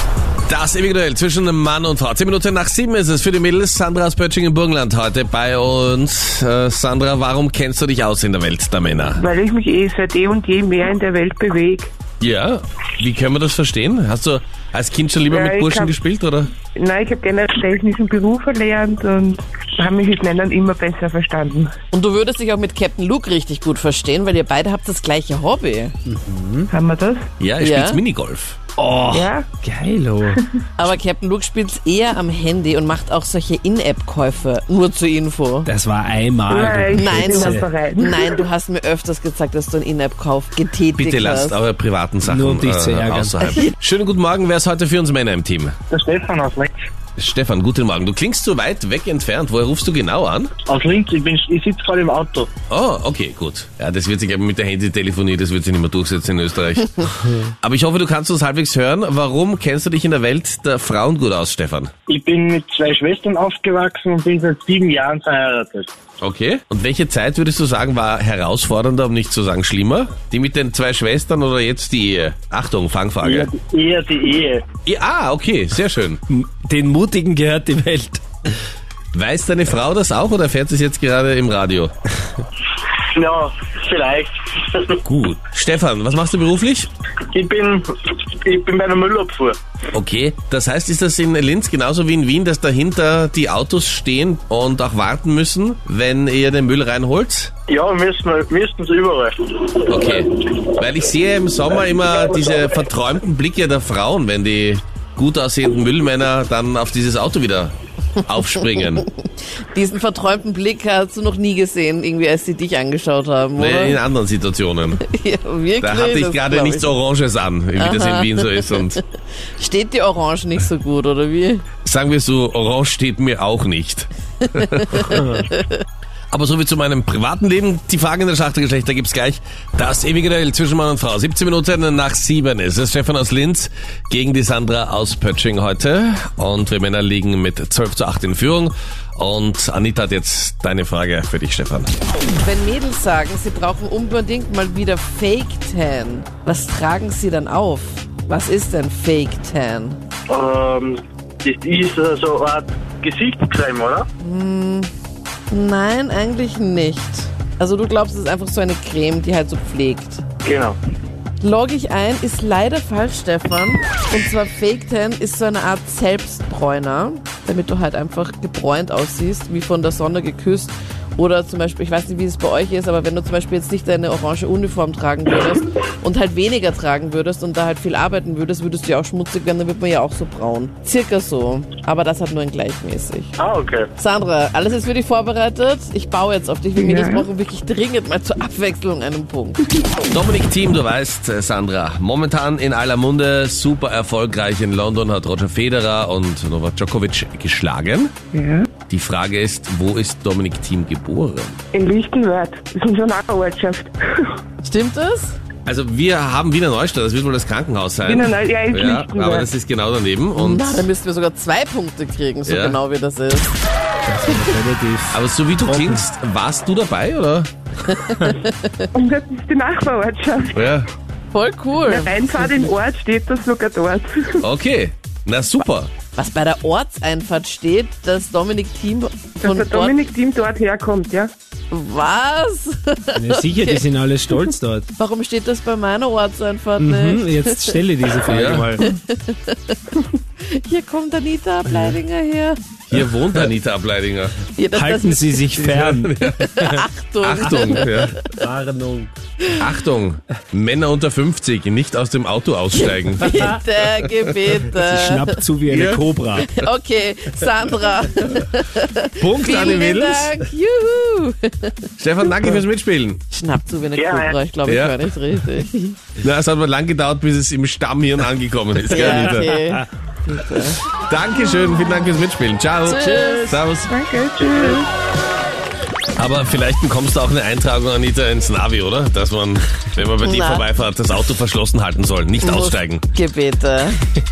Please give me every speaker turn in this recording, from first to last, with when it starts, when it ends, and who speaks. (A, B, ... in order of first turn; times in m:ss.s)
0:00.5-0:09.2 A
0:09.1-0:11.9 B
0:12.2-0:16.5 A
0:15.3-0:15.9 B
0:16.7-0:21.7 B
0:21.9-0:25.9 C
0:26.0-0:26.7 D
0:26.7-0:27.2 B
0:27.4-0:28.6 A
0:27.6-0:28.0 C
0:28.8-0:30.4 D
0:29.1-0:29.5 B
0:30.8-0:35.7 C
0:35.6-0:37.6 D
0:36.5-0:38.3 B
0:36.6-0:41.6 C
0:41.0-0:45.7 A
0:42.2-0:43.4 D
0:43.4-0:43.7 C
0:45.9-0:46.8 E
0:47.2-0:50.5 A
0:50.7-0:52.5 E
0:52.7-1:01.9 A
1:02.1-1:05.9 E
1:06.2-1:13.5 A
1:13.2-1:14.6 E
1:14.8-1:16.2 A
1:16.3-1:18.2 D
1:19.1-1:21.9 A
1:22.9-1:25.0 E
1:25.0-1:26.9 A
1:27.3-1:29.6 E
1:29.9-1:37.5 A
1:37.7-1:39.8 E
1:39.9-1:49.1 A
1:49.7-1:54.0 C
1:53.6-1:55.0 A
1:55.0-1:57.0 C
1:55.8-1:59.0 A
1:57.8-1:59.0 C
1:59.6-2:01.6 C
2:01.8-2:05.3 A
2:04.6-2:05.8 C
2:06.3-2:21.9 A
2:22.3-2:30.0 C
2:30.3-2:34.1 E
2:34.2-2:34.9 C
2:35.5-2:40.2 C
2:40.4-2:40.8 E
2:41.4-3:03.4 C
3:03.4-3:03.9 E
3:04.0-3:09.8 C
3:06.8-3:07.3 B
3:10.1-3:18.1 A
3:18.3-3:18.7 B
3:18.9-3:21.6 A
3:21.7-3:24.4 B
3:24.6-3:25.4 C
3:25.6-3:30.9 A
3:28.0-3:29.5 B
3:30.3-3:33.6 C
3:32.4-3:32.8 A
3:34.0-3:36.0 D
3:34.3-3:34.5 C
3:35.1-3:37.5 A
3:37.9-3:38.9 C
3:38.9-3:40.6 B
3:40.5-3:40.9 A
3:41.3-3:42.6 C
3:41.8-3:44.4 B
3:44.4-3:45.9 A
3:46.1-3:49.9 C
3:49.4-3:51.3 B
3:51.7-3:53.9 C
3:53.1-3:54.9 D
3:55.0-3:57.8 C
3:56.8-3:58.8 D
3:58.3-3:58.8 A
3:58.8-4:02.6 C
4:02.9-4:04.3 A
4:04.5-4:05.5 C
4:04.7-4:06.8 D
4:05.6-4:06.5 A
4:06.2-4:08.3 C
4:07.2-4:08.2 A
4:07.4-4:09.1 D
4:09.6-4:13.4 A
4:12.9-4:15.4 C
4:14.7-4:16.5 D
4:15.7-4:16.4 A
4:16.4-4:22.6 C
4:19.2-4:20.3 A
4:22.0-4:23.2 A
4:23.3-4:26.0 C
4:23.9-4:24.4 E
4:24.6-4:25.0 A
4:26.2-4:29.6 A
4:28.9-4:30.8 C
4:31.0-4:33.9 A
4:32.8-4:33.5 C
4:33.0-4:33.5 D
4:33.9-4:34.9 B
4:36.2-4:43.0 A
4:40.2-4:40.7 C
4:42.4-4:44.1 C